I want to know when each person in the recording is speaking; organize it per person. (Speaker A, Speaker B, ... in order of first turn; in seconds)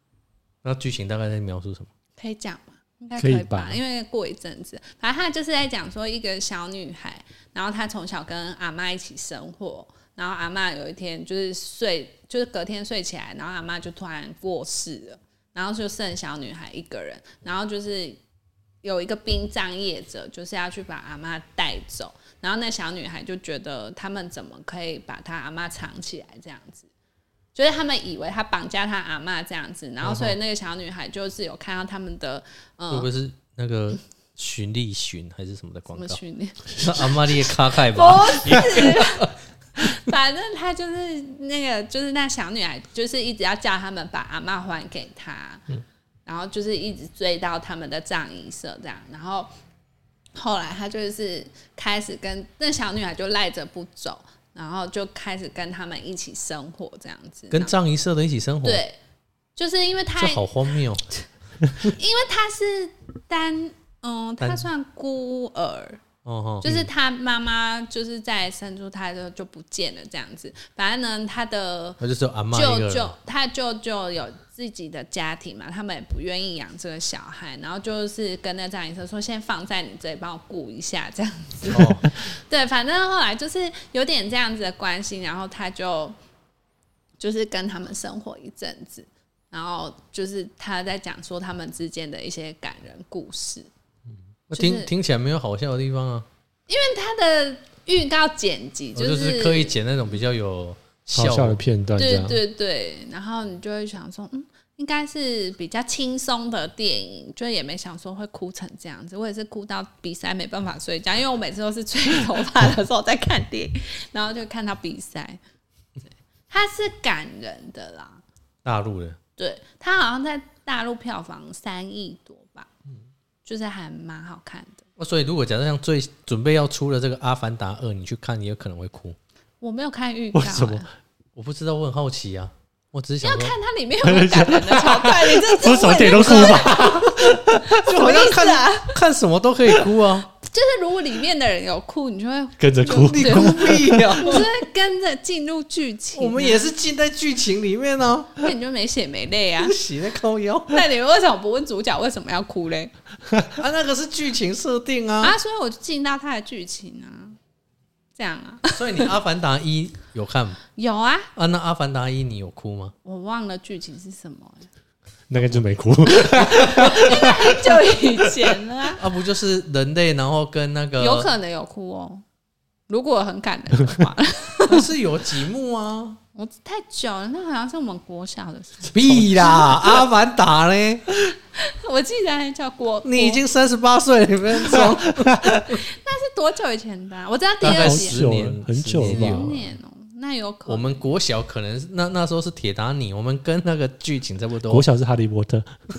Speaker A: 0.6-1.9, 30.0-30.4, 32.9-36.2, 36.7-39.3, 57.5-58.8, 60.2-61.0, 64.4-64.7, 66.2-66.9, 72.0-73.1, 81.7-82.1, 94.5-96.3, 98.9-101.6, 118.6-119.2, 125.0-129.2, 131.3-133.5, 136.2-140.3, 142.8-144.5, 146.2-148.5, 149.6-150.8, 153.5-155.3, 158.7-160.6, 161.3-162.9, 166.3-167.0, 169.0-171.3, 174.7-176.2, 178.9-181.1, 183.0-185.8, 187.6-189.6, 190.7-194.8
Speaker B: 2.2-18.2, 18.8-26.9, 27.5-33.1, 35.9-37.1, 37.7-45.6, 46.2-49.5, 50.4-57.7, 58.6-59.0, 59.5-60.5, 61.8-66.0, 66.6-72.0, 72.5-86.2, 87.2-93.7, 94.5-94.9, 96.7-99.7, 102.0-115.4, 116.5-118.2, 119.4-122.7, 123.4-124.8, 129.6-130.9, 133.2-137.1, 137.6-139.0, 140.3-146.7, 148.4-149.8, 150.7-152.9, 155.2-157.4, 158.1-159.1, 160.8-161.3, 163.0-164.7, 166.5-169.0, 171.0-172.2, 172.9-174.9, 176.3-180.0, 181.5-183.4, 185.7-188.3, 189.0-191.0
Speaker C: 3.2-3.8, 101.1-102.4, 130.3-130.8, 134.0-137.8, 142.6-144.3, 165.3-167.7, 184.7-185.6, 187.6-189.5, 194.7-195.7